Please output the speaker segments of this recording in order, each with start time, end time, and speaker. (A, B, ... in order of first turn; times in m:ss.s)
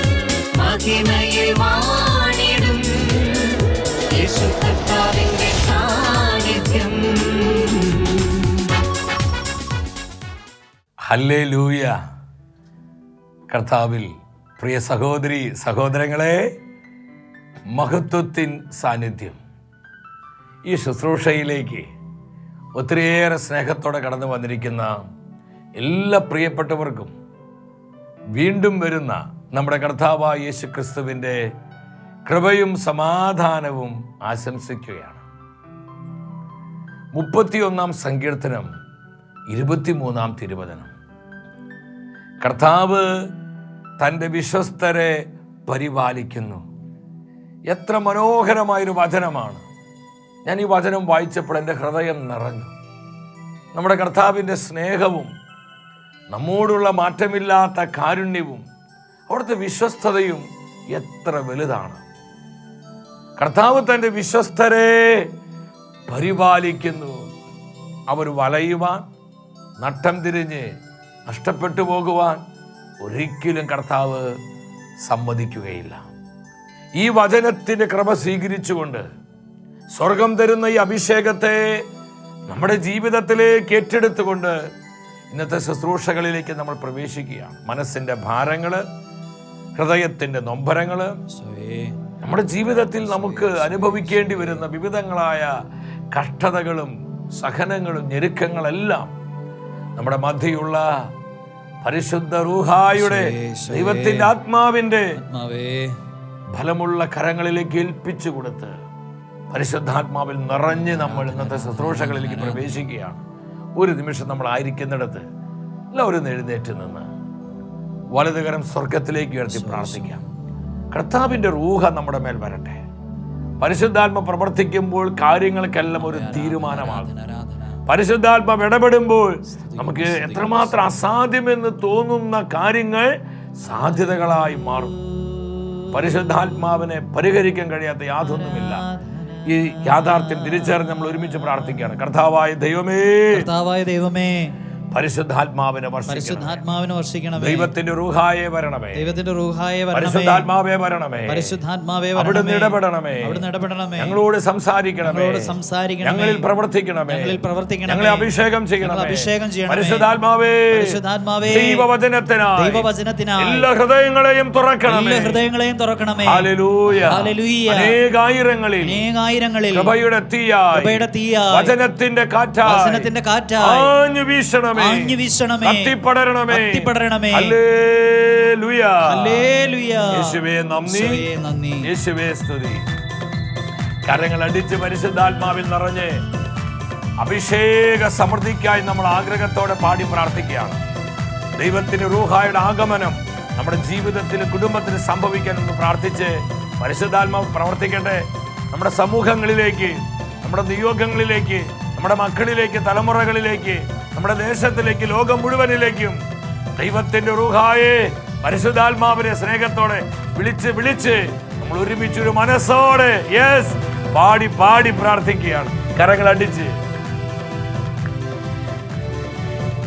0:00.6-0:03.6 A
0:04.1-0:08.5 A
0:11.1-0:12.0 B
0:13.5-0:16.5 B
0:17.7-0:19.4 B
0:20.7-0:21.9 B
0:22.8-0:25.0 B
0:25.8-0:27.1 B
0:28.4-0:31.4 B
0:32.3-0:35.2 B
0:37.2-0:38.7 B
0:39.5-0:40.9 B
0:42.4-0:43.1 B
0:44.0-0:46.6 B
0:47.7-0:49.6 B
0:50.5-0:52.7 B
0:53.7-0:55.3 B
0:56.3-0:58.6 B
0:59.3-1:02.0 B
1:03.4-1:05.3 B
1:06.1-1:07.3 B
1:08.1-1:09.1 B
1:09.8-1:10.7 B
1:11.3-1:12.4 B
1:13.0-1:14.3 B
1:15.1-1:16.0 B
1:17.0-1:19.0 B
1:20.0-1:21.8 B
1:22.5-1:24.6 B
1:25.3-1:28.8 B
1:29.8-1:31.2 B
1:31.3-1:32.0 C
1:32.2-1:35.5 B
1:33.0-1:34.7 C
1:36.1-1:39.1 B
1:40.0-1:41.1 B
1:41.8-1:45.2 B
1:42.9-1:44.3 C
1:45.2-1:46.0 C
1:46.6-1:48.7 B
1:49.5-1:53.2 B
1:50.7-1:52.9 C
1:53.8-1:55.2 B
1:55.9-1:57.1 B
1:58.1-2:00.2 B
1:59.5-2:00.3 C
2:00.9-2:02.8 B
2:03.6-2:07.1 B
2:06.0-2:07.8 C
2:07.9-2:15.0 B
2:09.5-2:11.1 C
2:13.9-2:14.5 C
2:15.1-2:15.9 C
2:15.9-2:18.8 B
2:18.2-2:21.8 C
2:19.5-2:23.5 B
2:23.3-2:24.6 C
2:24.9-2:26.6 B
2:26.1-2:27.7 C
2:27.4-2:29.1 B
2:28.9-2:30.5 C
2:29.9-2:31.6 B
2:31.3-2:34.2 C
2:32.2-2:33.4 B
2:34.0-2:42.9 B
2:35.0-2:36.4 C
2:37.1-2:38.3 C
2:38.8-2:40.1 C
2:40.7-2:41.9 C
2:42.6-2:43.7 C
2:43.4-2:45.4 B
2:44.9-2:48.0 C
2:46.2-2:49.0 B
2:48.8-2:49.9 C
2:49.7-2:53.1 B
2:50.7-2:51.7 C
2:52.6-2:53.9 C
2:53.6-2:59.5 B
2:54.8-2:56.0 C
2:56.5-2:57.6 C
2:59.1-3:01.9 C
3:00.1-3:01.3 B
3:01.8-3:02.8 B
3:04.1-3:06.2 B
3:07.2-3:10.8 B
3:11.6-3:26.2 B
3:26.8-3:36.8 B